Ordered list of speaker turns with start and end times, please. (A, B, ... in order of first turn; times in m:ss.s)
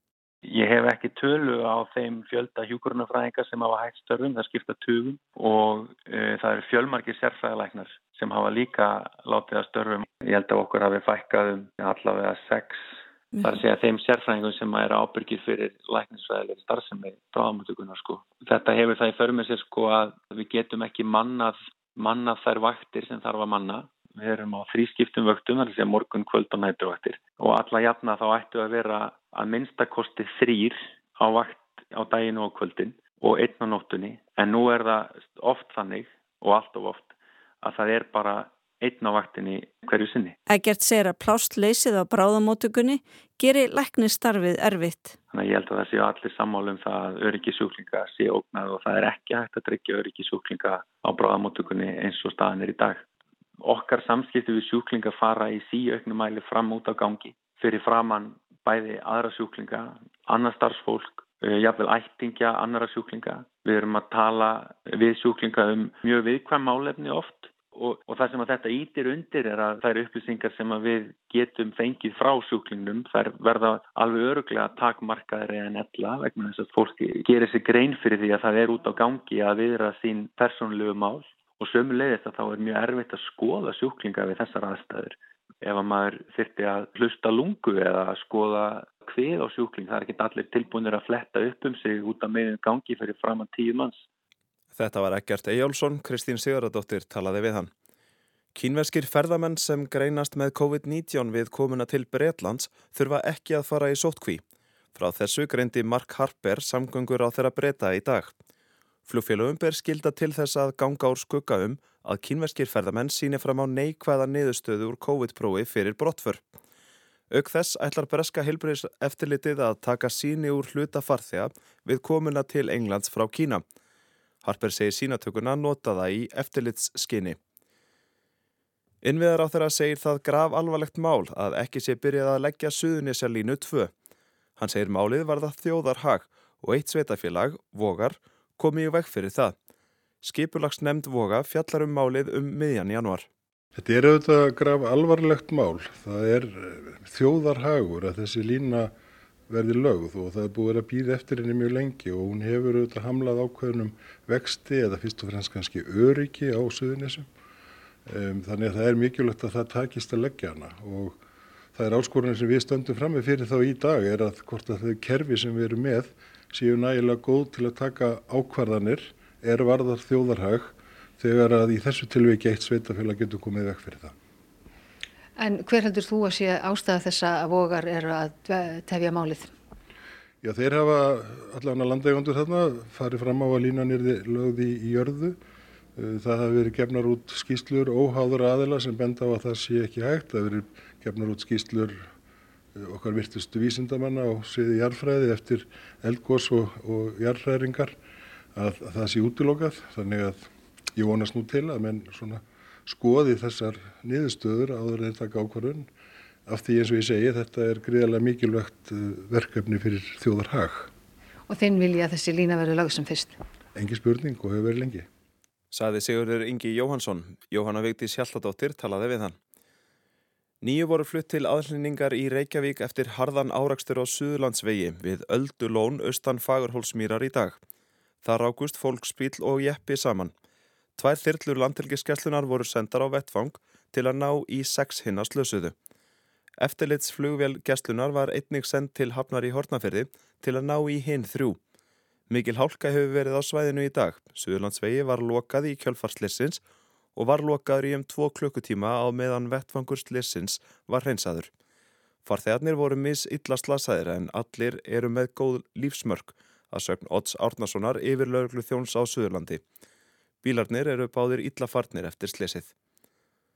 0:00.4-0:12.8 A
0:13.4-0:37.1 A
0:37.6-0:40.4 A
0:40.5-0:45.1 B
0:45.3-0:53.0 A
0:53.6-1:34.0 A
1:34.8-1:37.7 C
1:38.5-1:44.4 C
1:45.0-1:48.3 C
1:49.1-1:56.4 C
1:57.3-2:03.6 C
2:04.4-2:07.4 C
2:09.0-2:13.9 C
2:14.6-2:19.6 C
2:20.2-2:23.3 C
2:23.8-2:28.9 D
2:29.5-2:37.3 D
2:38.1-2:41.2 D
2:41.7-2:54.2 D
2:55.4-2:59.6 E
3:00.4-3:05.4 D
3:06.0-3:12.1 D
3:12.8-3:18.0 D
3:18.6-3:25.9 D
3:26.5-3:30.9 D
3:31.5-3:33.4 E
3:33.8-3:35.1 D
3:35.7-3:39.4 C
3:40.6-3:47.6 C
3:48.2-3:50.3 C
3:51.0-3:55.8 C
3:56.6-4:01.6 C
4:02.3-4:06.6 C
4:07.2-4:11.5 C
4:12.2-4:19.6 C
4:20.4-4:22.7 C